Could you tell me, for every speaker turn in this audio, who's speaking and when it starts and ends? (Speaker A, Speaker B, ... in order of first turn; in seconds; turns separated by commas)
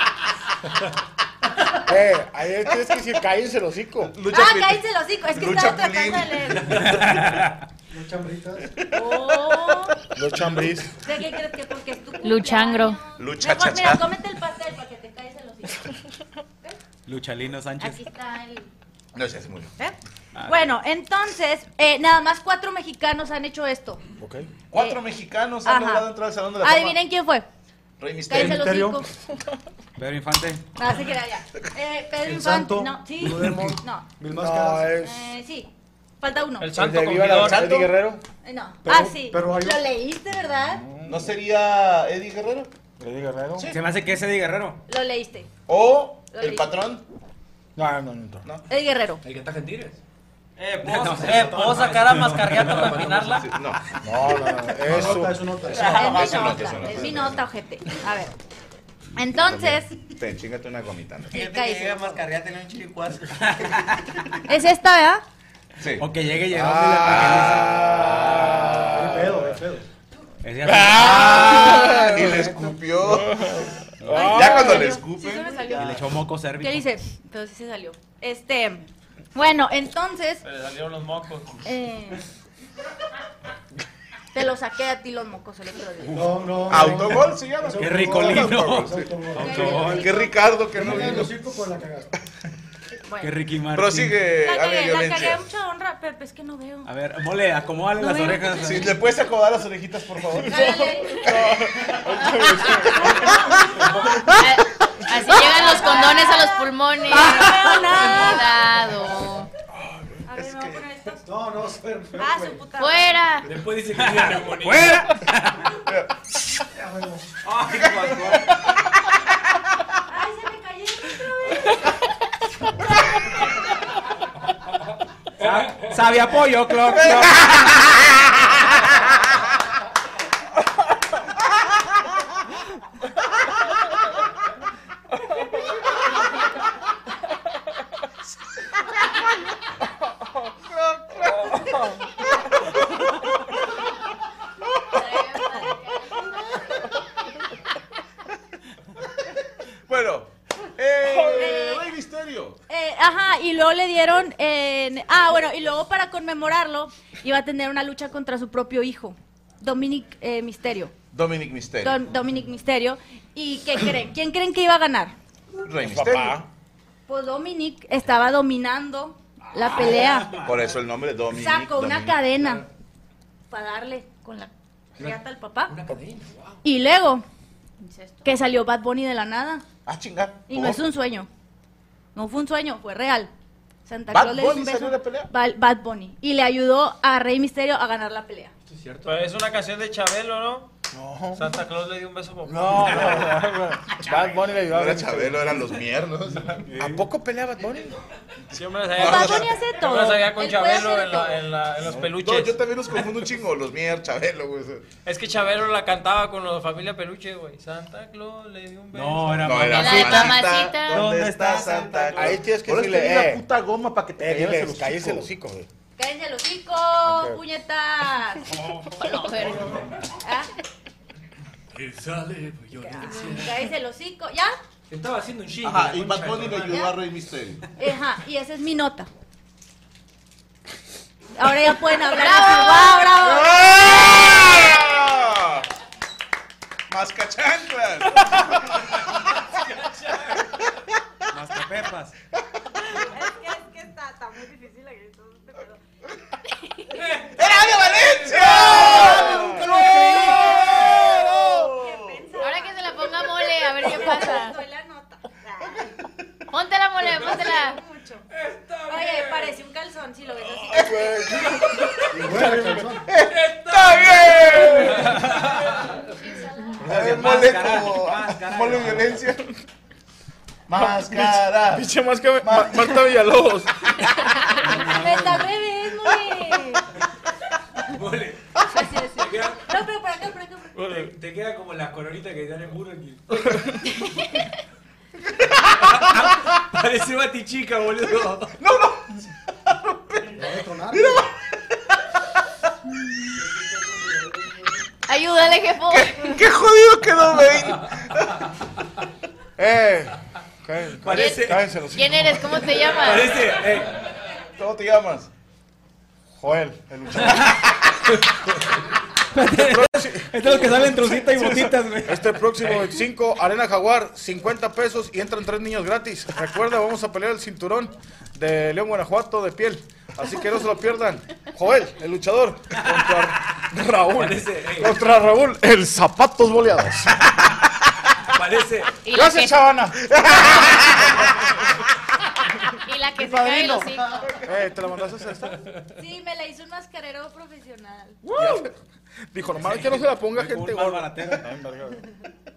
Speaker A: 1.8-4.1, Speaker B: 4.1-6.9, Speaker C: 4.3-7.1, Speaker D: 6.8-7.5, Speaker E: 7.9-8.7, Speaker B: 8.8-9.1, Speaker C: 8.9-9.9, Speaker A: 10.1-10.9, Speaker C: 11.0-16.0, Speaker F: 12.2-13.0, Speaker B: 13.2-14.0, Speaker D: 17.1-18.0, Speaker C: 17.8-18.7, Speaker B: 19.1-19.7, Speaker C: 19.8-24.0, Speaker D: 20.3-20.7, Speaker A: 24.2-24.5, Speaker B: 24.7-27.0, Speaker C: 24.7-25.0, Speaker C: 25.6-26.1, Speaker C: 26.6-27.4, Speaker B: 28.0-28.8, Speaker C: 28.3-29.1, Speaker E: 28.3-29.0, Speaker D: 30.0-30.6, Speaker C: 30.8-34.1, Speaker E: 32.2-34.9, Speaker A: 34.3-35.3, Speaker C: 35.0-36.7, Speaker G: 36.6-37.7, Speaker A: 36.7-38.2, Speaker B: 37.3-37.9, Speaker C: 38.4-40.8, Speaker E: 38.8-39.8, Speaker A: 40.8-41.3, Speaker B: 41.0-42.7, Speaker A: 43.0-43.7, Speaker D: 43.6-44.8, Speaker C: 44.9-45.5, Speaker B: 45.7-47.0, Speaker C: 46.3-46.7, Speaker A: 47.8-48.4, Speaker C: 48.7-49.2, Speaker H: 49.2-50.0, Speaker D: 50.6-52.6, Speaker G: 50.8-53.5, Speaker E: 51.3-51.8, Speaker H: 51.8-53.4, Speaker B: 53.4-53.8, Speaker A: 54.0-55.4, Speaker B: 54.8-57.5, Speaker E: 54.9-56.2, Speaker D: 55.7-57.0, Speaker C: 55.8-58.3, Speaker C: 59.1-59.9, Speaker B: 59.3-61.4, Speaker C: 61.3-62.2, Speaker D: 61.3-64.3, Speaker C: 64.5-65.2, Speaker B: 65.8-69.4, Speaker D: 66.0-68.9, Speaker A: 66.5-69.0, Speaker E: 68.9-69.8, Speaker D: 70.4-72.6, Speaker B: 70.7-73.5, Speaker A: 70.9-72.5, Speaker A: 73.1-74.8, Speaker D: 74.0-74.7, Speaker C: 74.1-76.0, Speaker B: 74.1-75.8, Speaker D: 75.7-76.9, Speaker C: 76.6-80.4, Speaker G: 80.4-81.6, Speaker C: 81.6-82.2, Speaker C: 84.3-86.3, Speaker D: 86.0-87.1, Speaker E: 86.1-90.0, Speaker B: 86.7-89.2, Speaker D: 87.8-90.2, Speaker C: 89.3-90.3, Speaker B: 89.9-91.4, Speaker E: 90.7-92.1, Speaker D: 93.2-94.2, Speaker B: 93.7-95.4, Speaker C: 94.4-96.9, Speaker D: 96.8-99.0, Speaker C: 98.0-98.9, Speaker B: 98.6-101.7, Speaker C: 100.4-101.4, Speaker A: 100.6-103.5, Speaker B: 102.3-102.8, Speaker F: 104.3-109.5, Speaker C: 105.2-108.6, Speaker C: 110.2-111.2, Speaker B: 110.4-110.7, Speaker E: 111.2-112.6, Speaker C: 112.2-113.2, Speaker F: 112.8-113.5, Speaker H: 113.4-115.1, Speaker D: 114.0-115.7, Speaker B: 115.8-116.1, Speaker E: 116.7-117.2, Speaker D: 117.4-118.6, Speaker B: 117.6-118.8, Speaker C: 120.1-122.0, Speaker H: 125.4-125.9, Speaker D: 125.4-127.9, Speaker B: 126.9-127.3, Speaker B: 140.7-143.2, Speaker B: 144.7-145.5, Speaker F: 144.9-147.0, Speaker B: 149.9-152.6, Speaker C: 151.3-151.9, Speaker C: 152.7-160.9, Speaker B: 161.1-162.0, Speaker C: 161.8-165.1, Speaker B: 165.6-166.4, Speaker A: 165.8-166.4, Speaker C: 167.1-170.3, Speaker D: 169.5-170.8, Speaker B: 170.3-172.3, Speaker C: 171.3-172.6, Speaker C: 173.5-175.7, Speaker H: 175.0-176.6, Speaker C: 176.6-177.2, Speaker F: 177.8-178.5, Speaker C: 178.2-179.6, Speaker B: 179.8-180.8, Speaker C: 180.5-181.3, Speaker C: 182.1-183.3, Speaker C: 183.8-188.5, Speaker B: 184.1-185.3, Speaker H: 188.7-189.2, Speaker G: 189.0-190.7, Speaker A: 190.9-191.6, Speaker G: 191.3-193.4, Speaker A: 192.4-195.6, Speaker B: 194.6-196.7, Speaker D: 196.6-197.0, Speaker A: 196.8-198.0, Speaker G: 198.5-202.6, Speaker B: 198.9-199.5, Speaker C: 198.9-201.4, Speaker B: 202.1-204.9, Speaker G: 205.0-209.6, Speaker D: 208.9-212.4, Speaker B: 209.4-215.3, Speaker F: 209.7-211.0, Speaker A: 212.1-213.4, Speaker A: 214.2-215.7, Speaker C: 216.0-218.5, Speaker A: 217.0-217.4, Speaker F: 218.9-219.8, Speaker C: 220.2-220.5, Speaker H: 221.7-223.6, Speaker C: 222.8-224.5, Speaker H: 224.9-226.8, Speaker B: 225.6-227.6, Speaker C: 226.7-226.9, Speaker C: 227.8-229.1, Speaker C: 231.4-234.5, Speaker F: 232.1-233.1, Speaker B: 233.2-235.7, Speaker B: 236.9-238.6, Speaker H: 239.2-240.5, Speaker D: 241.3-242.1, Speaker C: 242.8-245.8, Speaker H: 246.9-248.9, Speaker B: 247.3-252.2, Speaker A: 248.8-250.7, Speaker C: 248.9-255.9, Speaker F: 252.4-254.6, Speaker F: 256.5-257.8, Speaker C: 257.1-258.2, Speaker H: 258.3-259.6, Speaker C: 258.9-262.1, Speaker B: 260.7-261.6, Speaker H: 261.5-262.0, Speaker E: 262.1-263.1, Speaker A: 262.3-262.9, Speaker B: 263.0-265.2, Speaker H: 263.2-266.0, Speaker F: 265.8-266.9, Speaker D: 266.8-269.2, Speaker B: 266.8-269.5, Speaker B: 270.7-271.9, Speaker A: 270.7-273.9, Speaker B: 272.4-273.0, Speaker C: 274.5-276.8, Speaker H: 274.6-275.3, Speaker H: 277.8-279.7, Speaker C: 278.7-280.9, Speaker G: 280.8-281.1, Speaker H: 280.8-283.9, Speaker H: 285.7-288.5, Speaker B: 288.6-291.3, Speaker E: 290.3-291.2, Speaker F: 295.1-296.4, Speaker B: 295.8-298.5, Speaker A: 299.6-302.8, Speaker H: 301.0-301.7, Speaker F: 301.1-303.5, Speaker H: 302.8-304.0, Speaker B: 304.5-305.3, Speaker A: 306.4-307.6, Speaker B: 307.3-307.8, Speaker H: 308.1-308.8, Speaker D: 309.4-312.3, Speaker A: 309.6-327.7, Speaker H: 324.1-325.0, Speaker H: 328.3-329.0, Speaker F: 329.0-329.7, Speaker A: 329.1-331.6, Speaker F: 332.7-334.4, Speaker A: 333.2-335.6, Speaker C: 336.0-338.2, Speaker A: 338.3-338.7, Speaker A: 339.3-342.0, Speaker D: 339.6-341.5